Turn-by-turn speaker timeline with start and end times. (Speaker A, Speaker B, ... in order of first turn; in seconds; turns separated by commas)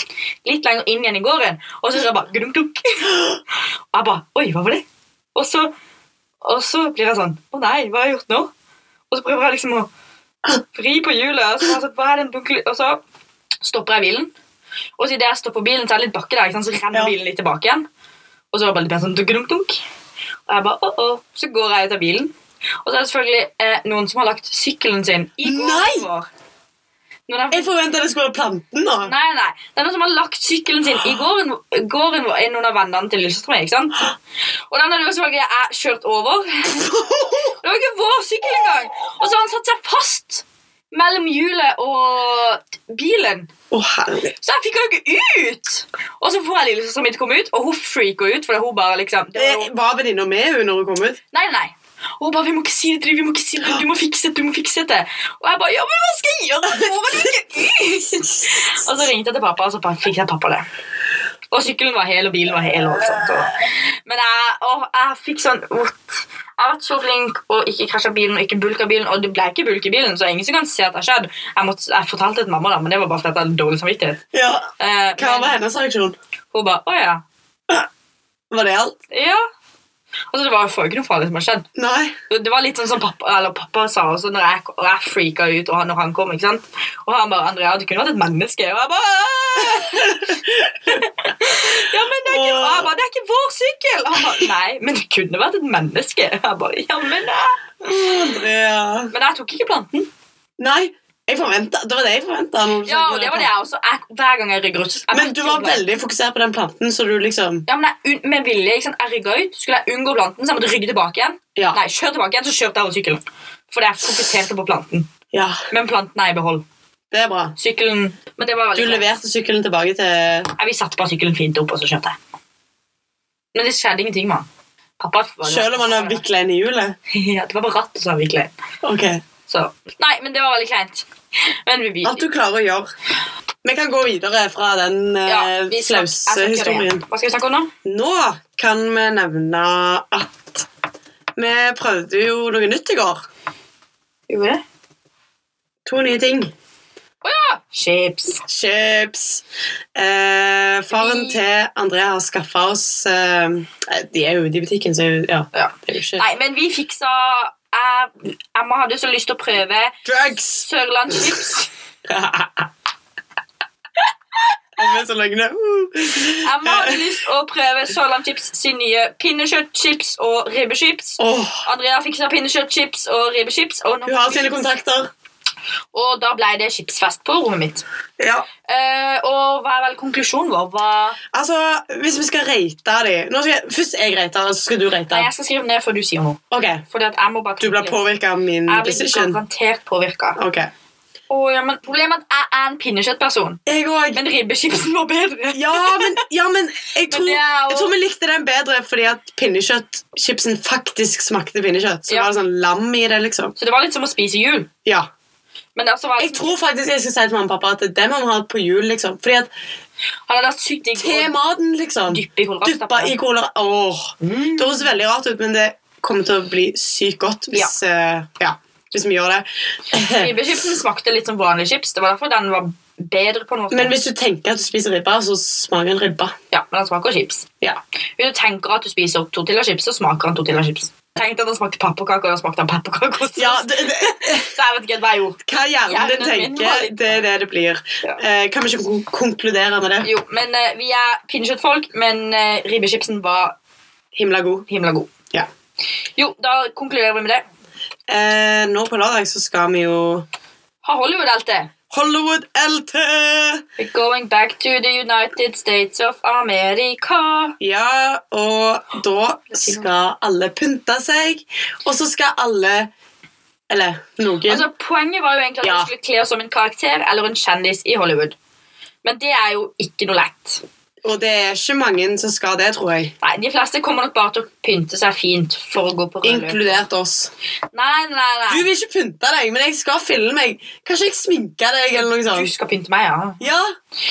Speaker A: 0.4-3.4, Speaker A: 3.9-5.7, Speaker A: 6.4-8.5, Speaker A: 9.1-9.9, Speaker A: 10.5-13.0, Speaker A: 13.6-14.3, Speaker A: 15.0-17.9, Speaker A: 18.5-19.8, Speaker A: 20.5-22.3, Speaker A: 22.8-26.3, Speaker B: 25.4-26.1, Speaker A: 27.3-27.7, Speaker B: 27.5-29.1, Speaker A: 29.0-34.1, Speaker A: 34.7-43.5, Speaker B: 43.7-44.3, Speaker A: 44.4-49.7, Speaker B: 49.3-51.2, Speaker A: 51.3-60.7, Speaker A: 61.5-74.2, Speaker B: 74.3-76.2, Speaker A: 74.8-75.6, Speaker A: 76.5-77.2, Speaker B: 78.5-79.0, Speaker A: 79.1-79.4, Speaker A: 80.3-81.7, Speaker B: 81.7-82.1, Speaker A: 82.3-90.4, Speaker B: 89.7-90.8, Speaker A: 90.9-97.7, Speaker B: 92.1-92.9, Speaker B: 97.8-99.1, Speaker A: 99.1-100.1, Speaker B: 100.6-103.5, Speaker A: 102.8-105.8, Speaker B: 105.1-107.7, Speaker A: 107.7-115.1, Speaker B: 115.3-115.6, Speaker A: 115.7-116.6, Speaker B: 117.1-117.5, Speaker A: 117.5-119.1, Speaker B: 118.7-120.5, Speaker A: 120.6-122.2, Speaker A: 123.5-124.5, Speaker A: 125.0-126.2, Speaker B: 125.4-127.0, Speaker A: 127.1-128.5, Speaker B: 128.8-129.2, Speaker A: 129.5-131.0, Speaker A: 131.6-132.3, Speaker B: 132.0-132.9, Speaker B: 133.6-137.0, Speaker A: 135.2-137.7, Speaker B: 137.8-140.7, Speaker B: 141.3-143.2, Speaker A: 144.3-144.6, Speaker B: 145.8-146.5, Speaker A: 147.2-148.4, Speaker B: 148.4-149.4, Speaker B: 149.9-156.2, Speaker A: 150.9-151.4, Speaker A: 155.5-160.0, Speaker B: 160.0-161.4, Speaker A: 160.6-161.7, Speaker B: 162.1-162.7, Speaker B: 164.8-167.2, Speaker A: 166.4-174.6, Speaker B: 171.2-171.7, Speaker B: 174.0-175.1, Speaker A: 175.9-177.8, Speaker B: 178.2-178.5, Speaker A: 178.7-181.2, Speaker B: 181.3-185.3, Speaker A: 185.1-188.0, Speaker B: 186.5-186.8, Speaker B: 187.6-189.4, Speaker A: 188.7-190.4, Speaker B: 190.4-190.7, Speaker A: 191.3-193.6, Speaker B: 193.7-194.2, Speaker A: 194.1-196.2, Speaker B: 195.5-203.5, Speaker A: 197.1-197.9, Speaker A: 203.6-204.7, Speaker A: 205.7-206.5, Speaker B: 206.2-209.5, Speaker A: 210.3-211.3, Speaker B: 210.9-220.4, Speaker A: 212.1-213.2, Speaker A: 214.2-214.9, Speaker A: 220.0-223.9, Speaker B: 223.7-226.3, Speaker A: 226.5-227.5, Speaker A: 228.2-237.3, Speaker B: 233.3-234.5, Speaker B: 235.4-240.1, Speaker A: 240.0-243.6, Speaker B: 244.1-244.7, Speaker A: 244.7-245.1, Speaker A: 246.2-247.4, Speaker B: 248.1-250.2, Speaker A: 250.8-251.7, Speaker B: 251.9-253.6, Speaker A: 253.8-257.6, Speaker B: 257.6-262.9, Speaker A: 259.5-259.8, Speaker B: 263.7-264.6, Speaker A: 264.4-268.4, Speaker B: 265.6-265.9, Speaker A: 269.0-270.6, Speaker B: 271.0-273.1, Speaker A: 273.2-276.8, Speaker B: 276.2-277.3, Speaker A: 277.7-278.7, Speaker B: 278.5-282.5, Speaker A: 282.0-283.5, Speaker B: 283.4-283.7